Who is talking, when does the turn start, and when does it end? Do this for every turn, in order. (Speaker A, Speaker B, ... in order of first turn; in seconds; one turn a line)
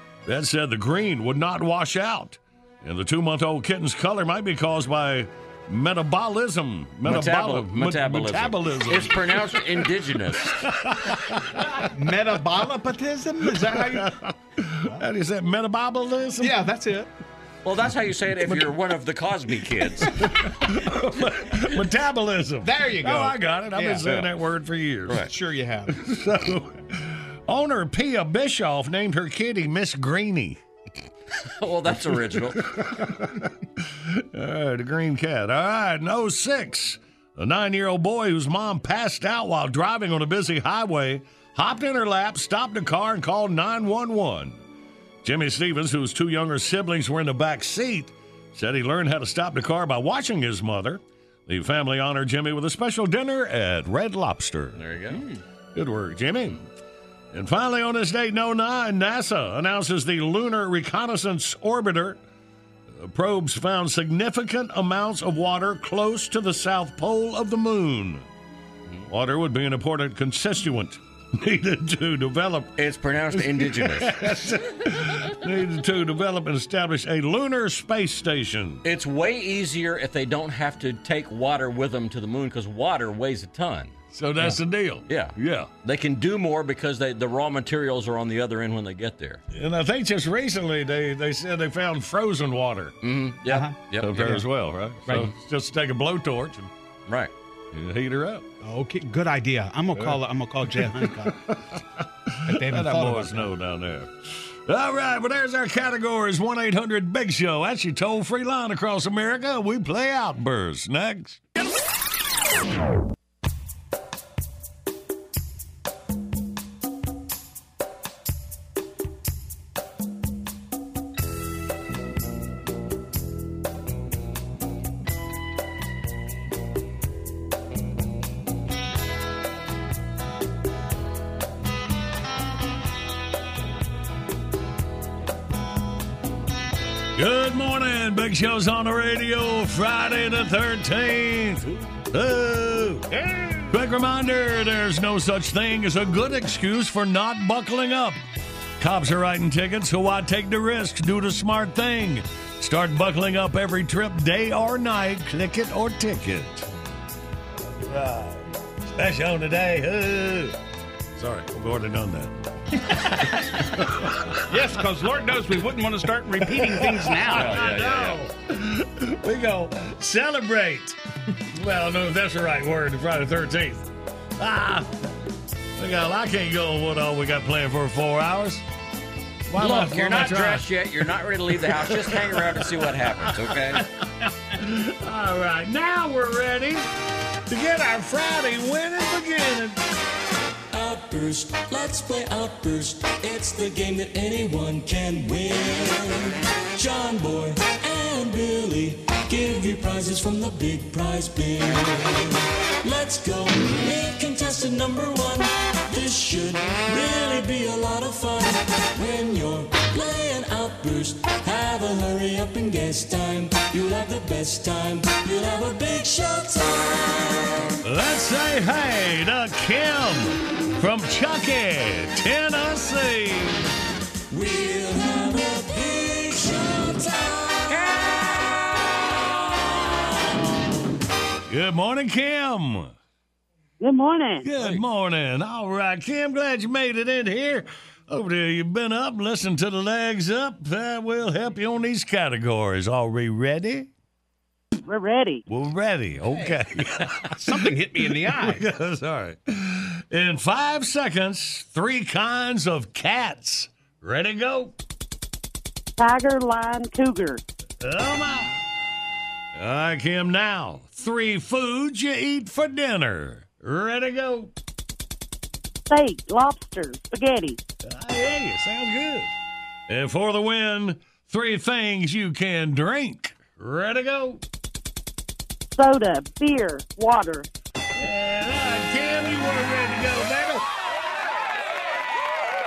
Speaker A: 0.2-9.6
Speaker B: 7.0-10.6
Speaker A: 10.6-11.8
Speaker C: 11.9-14.2
Speaker A: 13.5-16.6
Speaker C: 16.4-17.1
Speaker B: 17.6-20.1
Speaker A: 20.0-25.2
Speaker C: 22.6-24.1
Speaker C: 25.2-26.0
Speaker A: 25.9-30.6
Speaker B: 31.4-32.6
Speaker A: 32.6-33.4
Speaker A: 34.1-44.6
Speaker A: 45.2-54.8
Speaker B: 54.7-55.2
Speaker A: 55.7-56.6
Speaker A: 57.3-62.2
Speaker A: 62.9-68.2
Speaker A: 69.1-72.7
Speaker B: 72.8-74.2
Speaker A: 73.3-78.8
Speaker B: 78.8-84.0
Speaker A: 84.1-85.7
Speaker B: 85.1-89.4
Speaker A: 89.5-92.9
Speaker B: 93.0-94.4
Speaker C: 93.5-93.8
Speaker A: 94.0-96.7
Speaker B: 97.1-97.3
Speaker A: 97.7-98.4
Speaker C: 98.6-101.4
Speaker A: 100.7-101.6
Speaker A: 102.4-111.4
Speaker C: 102.4-103.5
Speaker A: 137.2-143.0
Speaker A: 143.7-148.2
Speaker A: 148.8-156.7
Speaker A: 157.6-160.6
Speaker A: 161.1-162.3
Speaker A: 162.9-164.4
Speaker C: 164.5-167.7
Speaker A: 166.4-171.0
Speaker B: 167.3-168.2
Speaker A: 171.5-173.9
Speaker A: 174.4-174.9
Speaker A: 175.8-178.6
Speaker A: 179.5-180.7
Speaker B: 179.6-183.8
Speaker A: 181.6-182.7
Speaker A: 183.3-183.9
Speaker A: 184.5-186.9
Speaker A: 187.5-189.8
Speaker D: 190.7-217.7
Speaker A: 217.8-223.7
Speaker D: 224.3-228.5
Speaker A: 231.5-232.9
Speaker E: 233.8-234.4
Speaker A: 234.4-243.9
Speaker B: 234.5-234.8
Speaker E: 244.9-245.4
Speaker A: 245.5-254.7
Speaker C: 246.3-246.6
Speaker C: 247.3-248.7
Speaker E: 256.0-257.4
Speaker A: 257.8-258.5
Speaker A: 259.5-264.5
Speaker E: 265.9-267.6
Speaker A: 267.8-269.3
Speaker A: 269.9-274.4
Speaker E: 275.8-277.4
Speaker A: 278.0-280.6